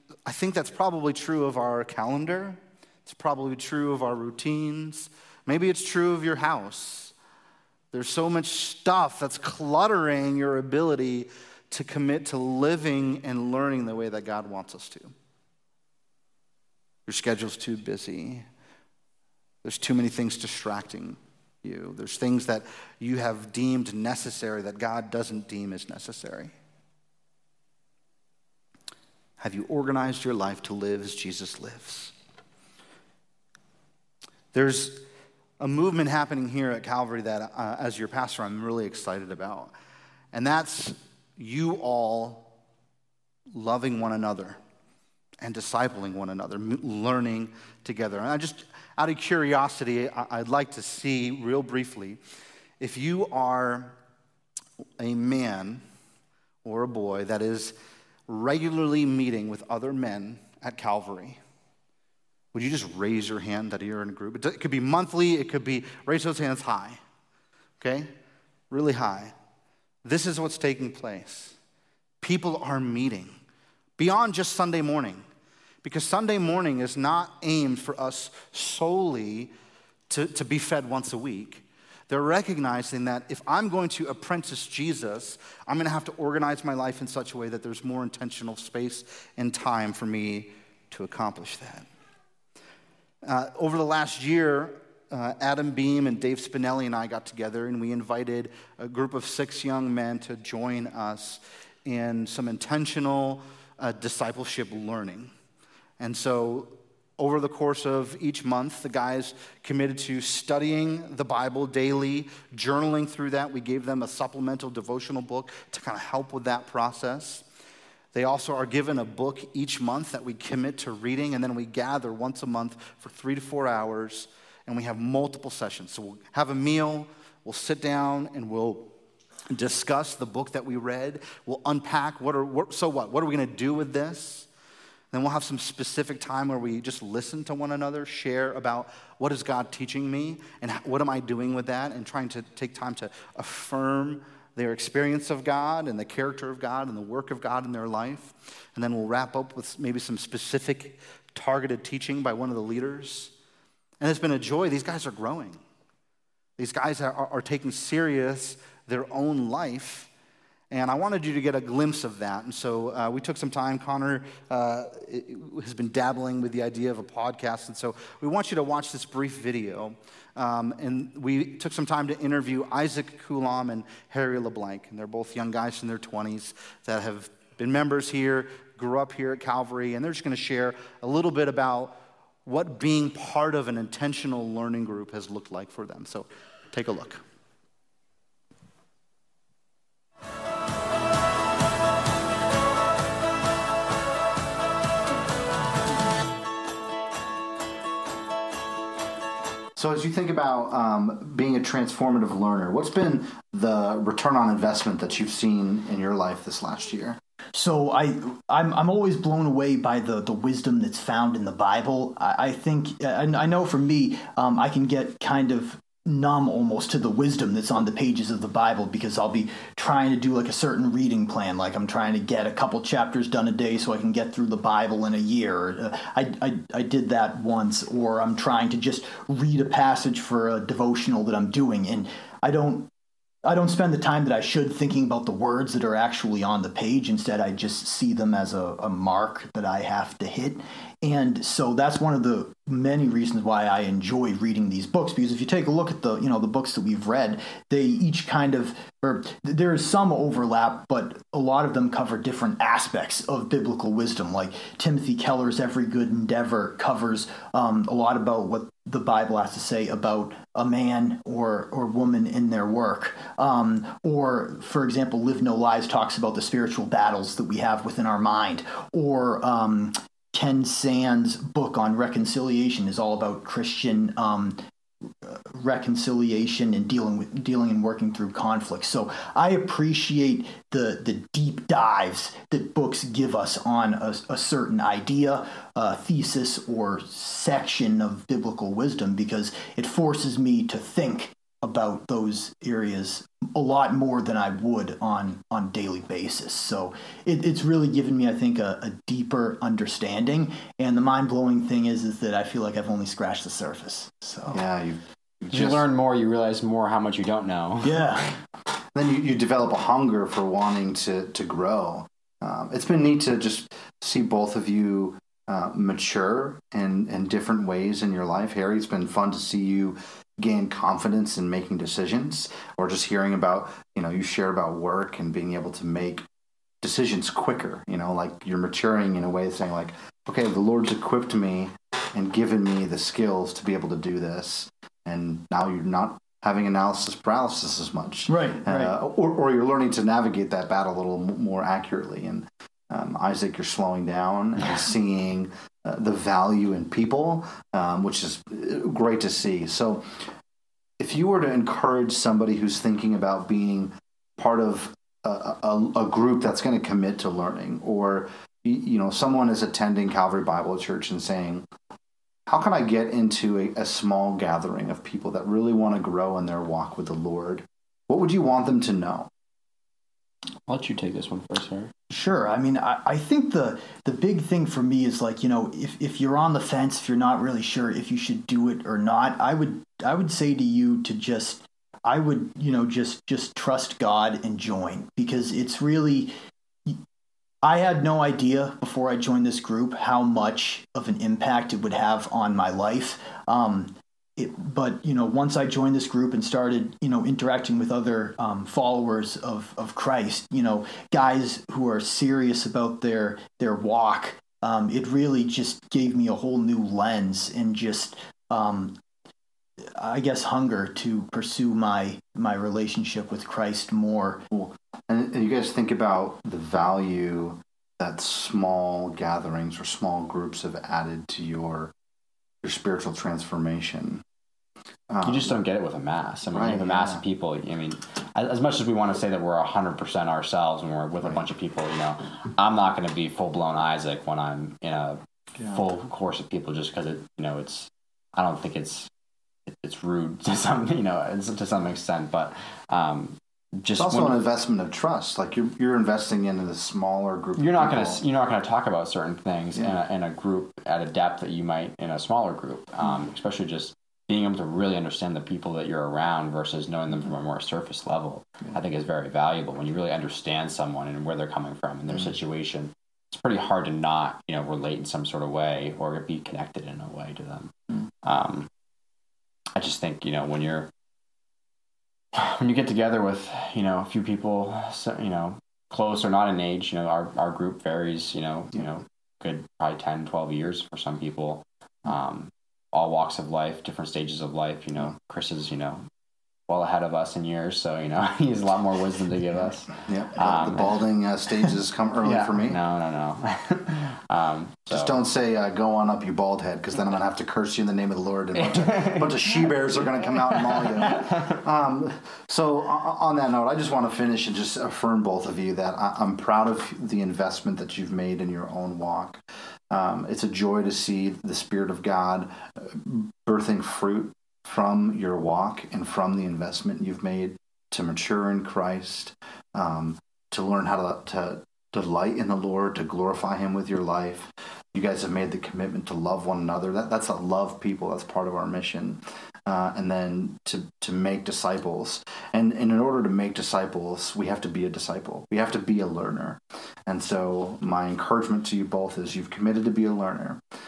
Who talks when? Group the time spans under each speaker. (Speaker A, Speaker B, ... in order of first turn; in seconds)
Speaker A: 0.2-7.1, 7.9-15.1, 17.1-18.4, 19.6-26.5, 29.4-32.1, 34.5-35.0, 35.6-39.7, 40.3-42.5, 43.5-44.6, 45.4-52.2, 52.8-54.0, 55.0-55.8, 56.6-57.7, 58.3-61.4, 62.5-67.0, 67.8-68.1, 68.7-69.3, 70.0-71.6, 72.2-73.4, 74.0-75.2, 75.8-79.5, 80.1-91.9, 93.2-105.3, 106.0-117.4, 118.1-128.9, 129.5-134.5, 135.1-153.3, 154.0-155.6, 156.6-160.1, 160.7-187.2, 199.8-207.2, 304.5-305.8, 308.9-326.2, 326.8-350.3, 351.0-361.7, 362.5-369.3, 414.5-421.9, 422.6-424.2, 425.1-425.5, 426.5-427.2, 435.6-435.9, 443.9-448.2, 490.1-492.8, 494.9-540.6
Speaker B: 207.5-232.9, 233.4-304.6, 307.8-308.3, 338.3-338.9, 372.1-386.3, 387.6-409.0, 409.8-414.4
Speaker C: 305.5-308.2, 370.6-371.9, 425.2-439.1, 439.7-444.4, 447.6-468.7, 469.7-470.9, 472.3-486.0, 486.7-491.0, 492.2-495.2, 498.6-499.6, 500.5-501.6